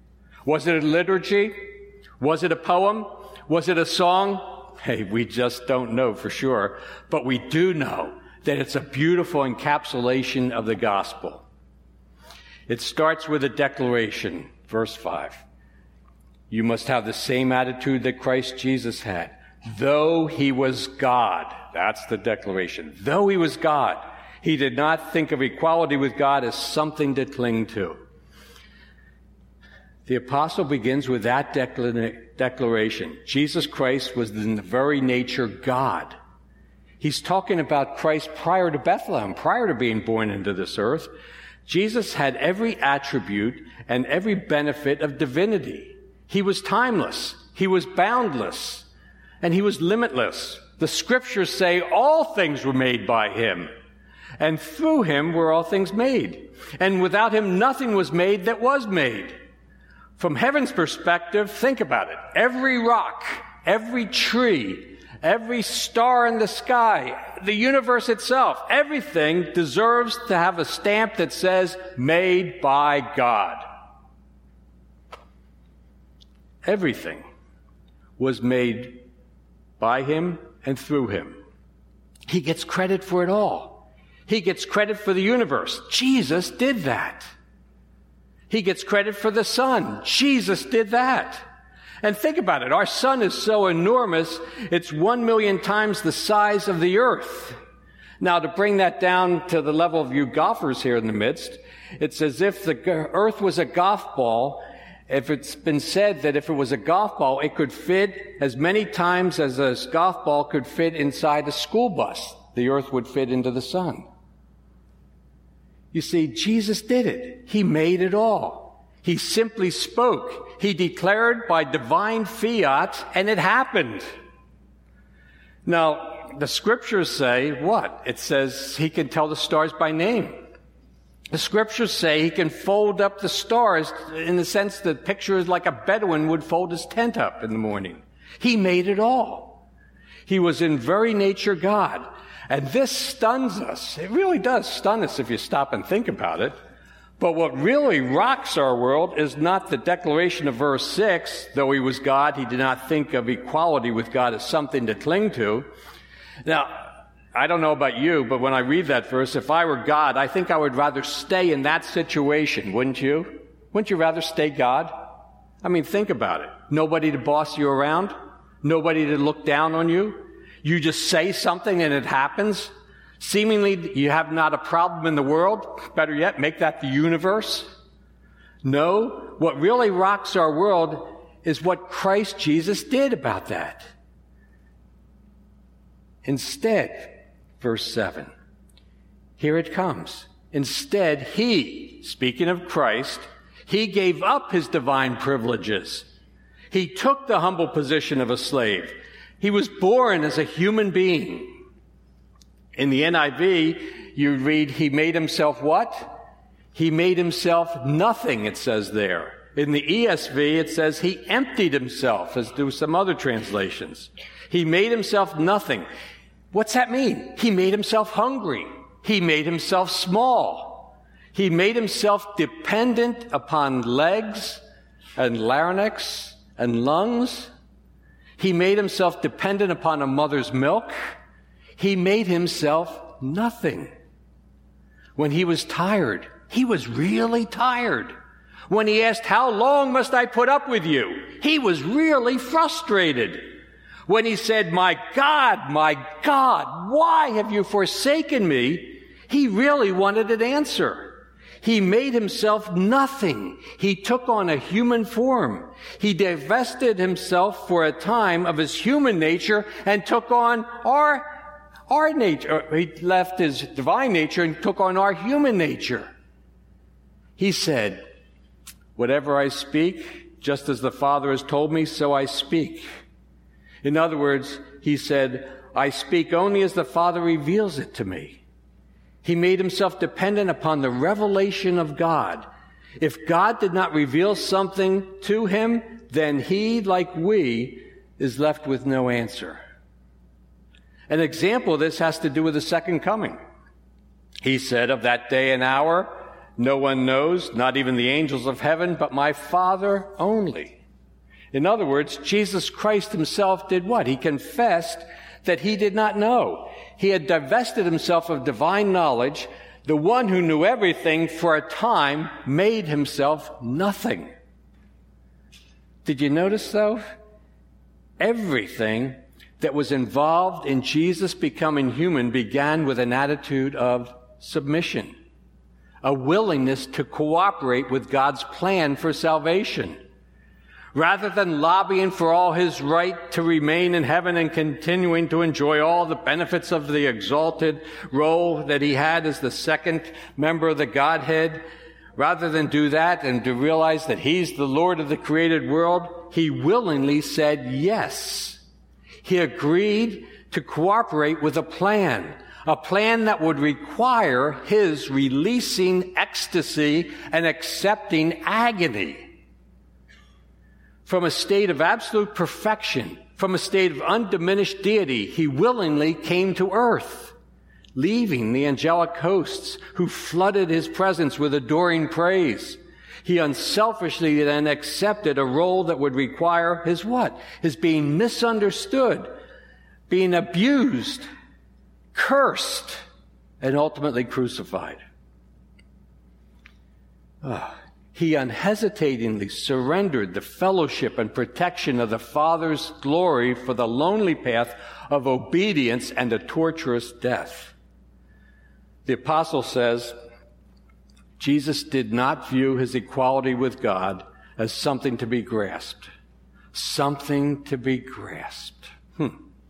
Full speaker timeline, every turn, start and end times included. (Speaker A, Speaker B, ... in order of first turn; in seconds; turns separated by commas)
Speaker A: 0.5-11.4, Speaker A: 12.7-15.4, Speaker A: 16.5-28.0, Speaker A: 30.1-36.2, Speaker A: 37.0-41.1, Speaker A: 41.7-48.9, Speaker A: 49.4-53.7, Speaker A: 54.4-59.4, Speaker A: 60.2-73.6, Speaker A: 76.7-77.2, Speaker A: 78.2-79.0, Speaker A: 79.8-81.4, Speaker A: 82.3-87.3, Speaker A: 88.5-91.4, Speaker A: 92.0-97.6, Speaker A: 98.2-114.1, Speaker A: 115.9-124.1, Speaker A: 125.7-130.4, Speaker A: 131.3-139.6, Speaker A: 140.3-146.6, Speaker A: 147.2-155.7, Speaker A: 156.4-165.0, Speaker A: 165.6-177.7, Speaker A: 178.6-183.9, Speaker A: 186.2-188.3, Speaker A: 189.4-196.1, Speaker A: 196.7-201.5, Speaker A: 202.8-206.2, Speaker A: 206.7-215.9, Speaker A: 216.5-224.6, Speaker A: 225.2-227.5, Speaker A: 228.4-230.9, Speaker A: 231.8-233.9, Speaker A: 235.2-238.1, Speaker A: 238.7-243.5, Speaker A: 244.1-261.3, Speaker A: 261.9-266.1, Speaker A: 267.4-268.0, Speaker A: 269.0-272.8, Speaker A: 273.8-278.4, Speaker A: 279.2-282.5, Speaker A: 283.0-289.6, Speaker A: 291.1-293.4, Speaker A: 294.4-300.8, Speaker A: 301.5-314.3, Speaker A: 316.1-317.1, Speaker A: 318.2-325.1, Speaker A: 326.0-330.0, Speaker A: 330.9-341.6, Speaker A: 342.2-348.6, Speaker A: 349.2-359.3, Speaker A: 361.1-367.4, Speaker A: 367.9-379.3, Speaker A: 380.1-381.3, Speaker A: 382.1-383.0, Speaker A: 383.6-385.0, Speaker A: 387.4-397.8, Speaker A: 399.1-400.1, Speaker A: 401.4-406.1, Speaker A: 406.7-409.4